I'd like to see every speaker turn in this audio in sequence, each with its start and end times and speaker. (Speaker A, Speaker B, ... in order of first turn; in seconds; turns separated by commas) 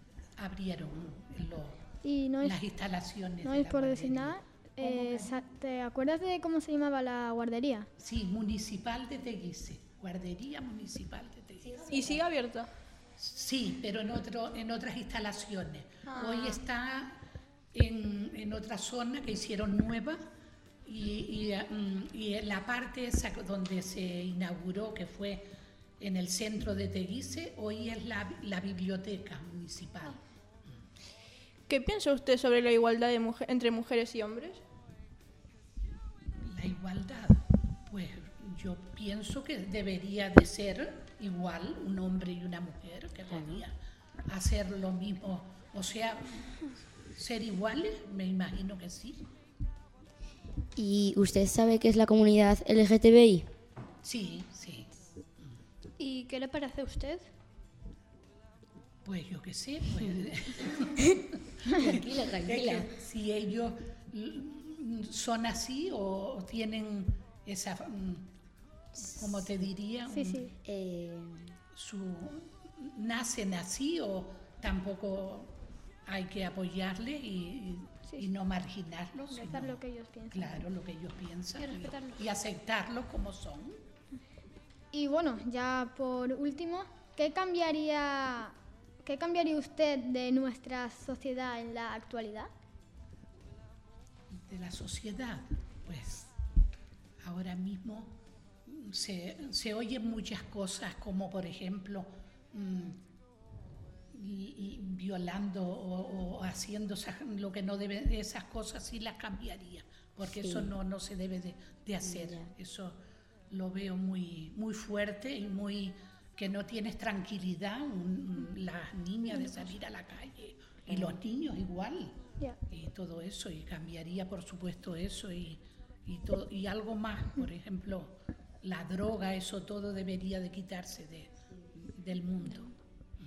Speaker A: 0.4-1.9, Speaker B: 2.0-2.6, Speaker A: 2.4-4.4, Speaker B: 3.4-7.9, Speaker C: 4.8-5.3, Speaker A: 8.0-11.7, Speaker D: 11.6-12.2, Speaker E: 11.9-12.7, Speaker A: 13.2-17.2, Speaker E: 16.1-16.6, Speaker A: 17.7-20.2, Speaker A: 20.8-25.5, Speaker A: 26.0-30.2, Speaker E: 31.7-34.6, Speaker A: 36.4-49.2, Speaker D: 43.3-43.6, Speaker D: 50.8-53.5, Speaker A: 54.0-54.9, Speaker C: 56.0-57.3, Speaker A: 59.0-61.2, Speaker D: 61.7-62.9, Speaker A: 62.4-68.3, Speaker D: 69.0-69.5, Speaker A: 69.0-70.5, Speaker B: 70.1-70.5, Speaker D: 70.6-71.6, Speaker A: 71.7-75.5, Speaker A: 76.0-83.8, Speaker B: 79.3-80.5, Speaker C: 81.6-82.2, Speaker B: 84.9-92.5, Speaker A: 94.3-96.3, Speaker A: 97.2-103.0, Speaker A: 104.1-113.0, Speaker D: 110.4-110.7, Speaker D: 112.0-112.5, Speaker A: 113.5-132.7, Speaker D: 120.9-121.2